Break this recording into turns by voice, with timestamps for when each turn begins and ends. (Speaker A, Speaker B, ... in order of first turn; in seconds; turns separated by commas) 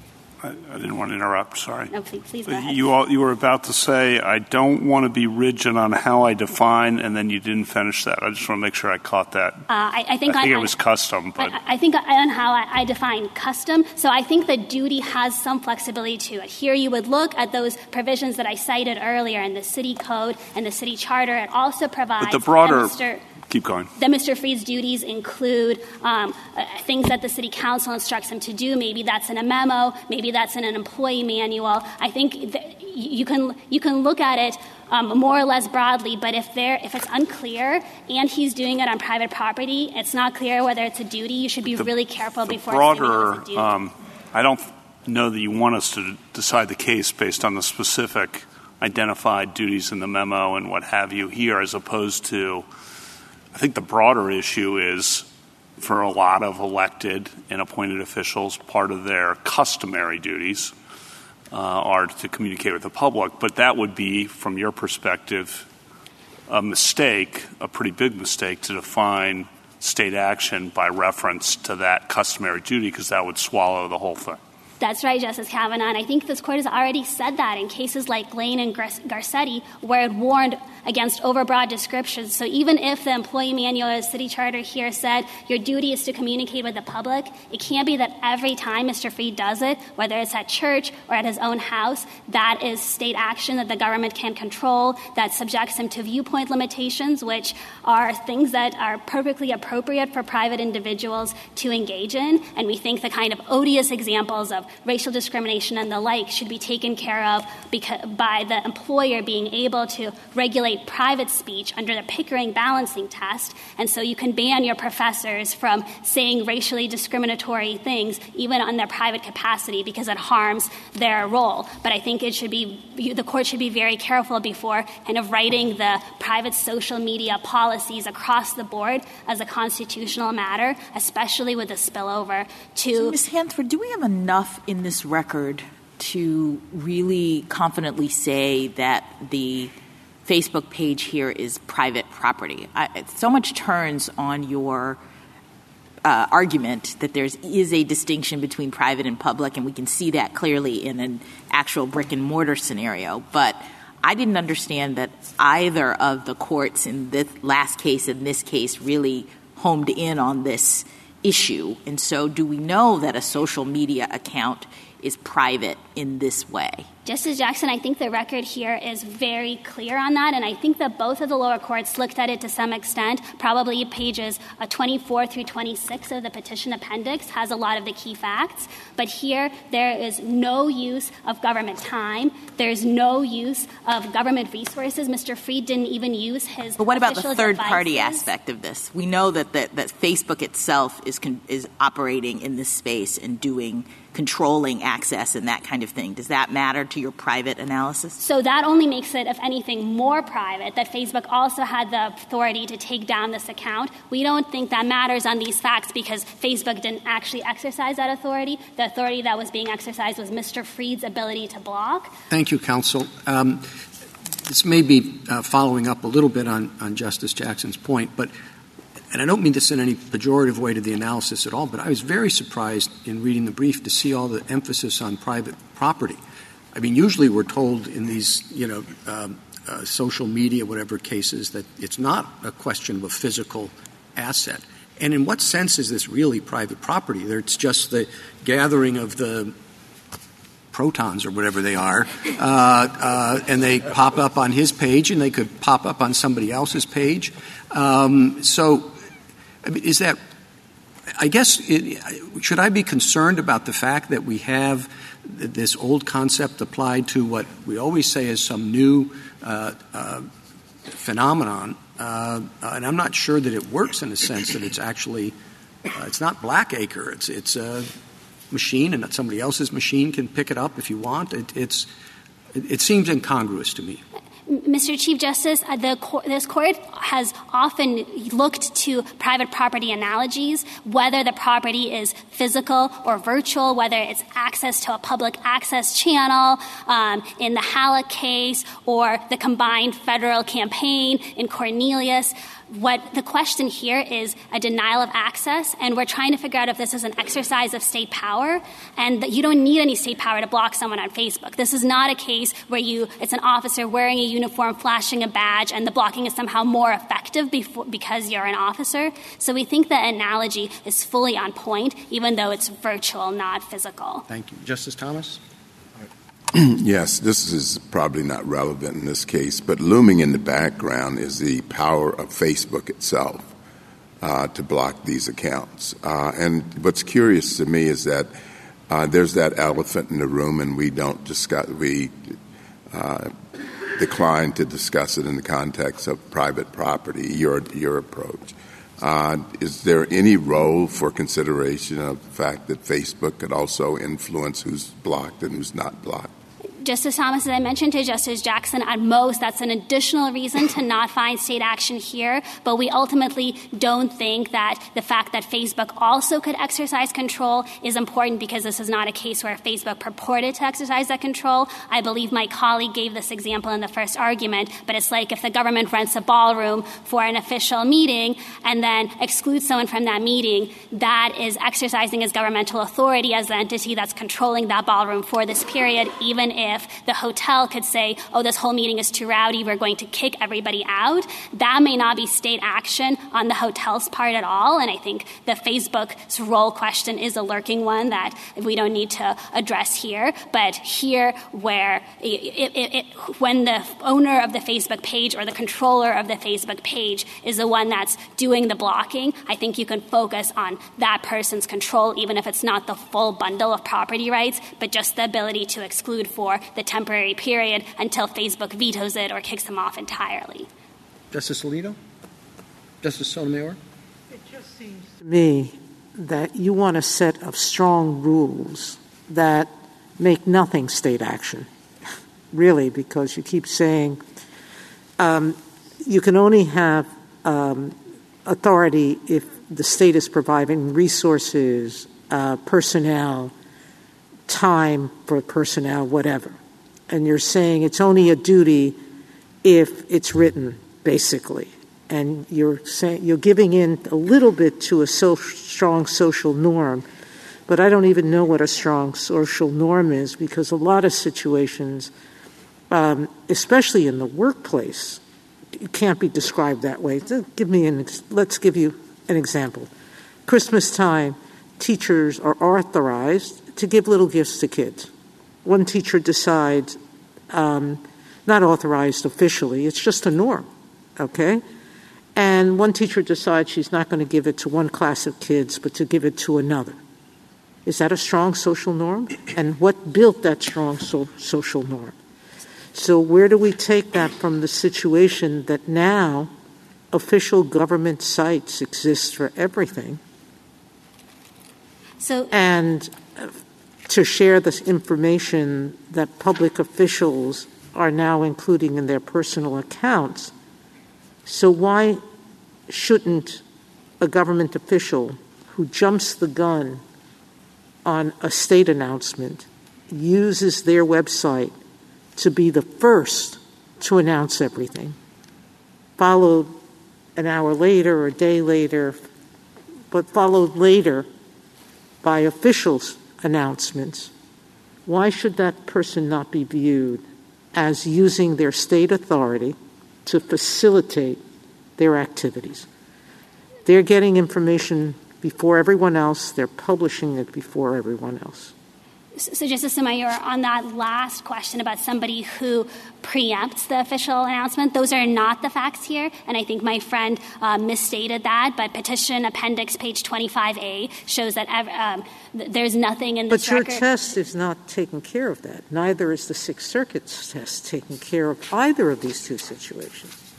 Speaker A: 0.4-1.9, Speaker B: 1.9-2.9, Speaker A: 2.5-9.6, Speaker B: 9.7-10.8, Speaker A: 10.3-11.6, Speaker B: 11.4-23.3, Speaker A: 22.2-23.9, Speaker B: 24.0-43.7, Speaker A: 42.5-52.6, Speaker A: 53.5-55.3, Speaker A: 55.8-60.7, Speaker A: 61.5-65.7, Speaker A: 66.5-74.4, Speaker B: 74.8-133.2, Speaker C: 132.9-139.7, Speaker C: 140.3-145.0, Speaker C: 146.1-166.8, Speaker B: 167.1-188.3, Speaker C: 186.8-198.2, Speaker B: 198.2-212.1, Speaker D: 212.3-213.7, Speaker D: 214.5-218.3, Speaker D: 219.1-226.2, Speaker D: 226.7-239.5, Speaker D: 240.7-248.9, Speaker D: 249.6-250.2, Speaker D: 251.2-260.3, Speaker D: 260.9-265.4, Speaker D: 265.9-267.9, Speaker D: 268.5-271.9, Speaker D: 272.6-274.0, Speaker B: 274.5-314.2, Speaker D: 314.3-315.4, Speaker E: 316.5-323.5, Speaker E: 324.2-328.3, Speaker E: 328.9-332.4, Speaker E: 332.9-333.3, Speaker E: 333.9-346.3, Speaker B: 346.8-410.7, Speaker D: 411.3-412.0, Speaker D: 413.0-413.8, Speaker F: 414.4-421.7, Speaker F: 422.5-424.2, Speaker F: 425.2-433.5, Speaker F: 434.5-439.0, Speaker F: 439.6-447.1, Speaker F: 447.7-452.1, Speaker F: 452.9-455.2, Speaker F: 455.8-459.9, Speaker F: 460.5-465.1, Speaker F: 465.6-467.0, Speaker F: 467.5-470.7, Speaker F: 471.2-471.6, Speaker F: 472.4-477.0, Speaker F: 477.9-482.1, Speaker F: 482.9-486.5, Speaker F: 487.1-490.2, Speaker B: 492.2-492.5, Speaker F: 492.5-493.5, Speaker F: 494.1-500.5, Speaker F: 501.5-502.2, Speaker F: 502.9-503.6, Speaker F: 504.2-507.0, Speaker F: 508.1-511.7, Speaker F: 512.4-515.2, Speaker F: 516.2-516.7, Speaker F: 517.4-519.2, Speaker F: 520.1-521.3, Speaker F: 522.2-524.3, Speaker F: 525.1-531.4, Speaker F: 532.0-532.9, Speaker F: 533.9-538.7, Speaker B: 539.4-554.1, Speaker F: 553.5-560.4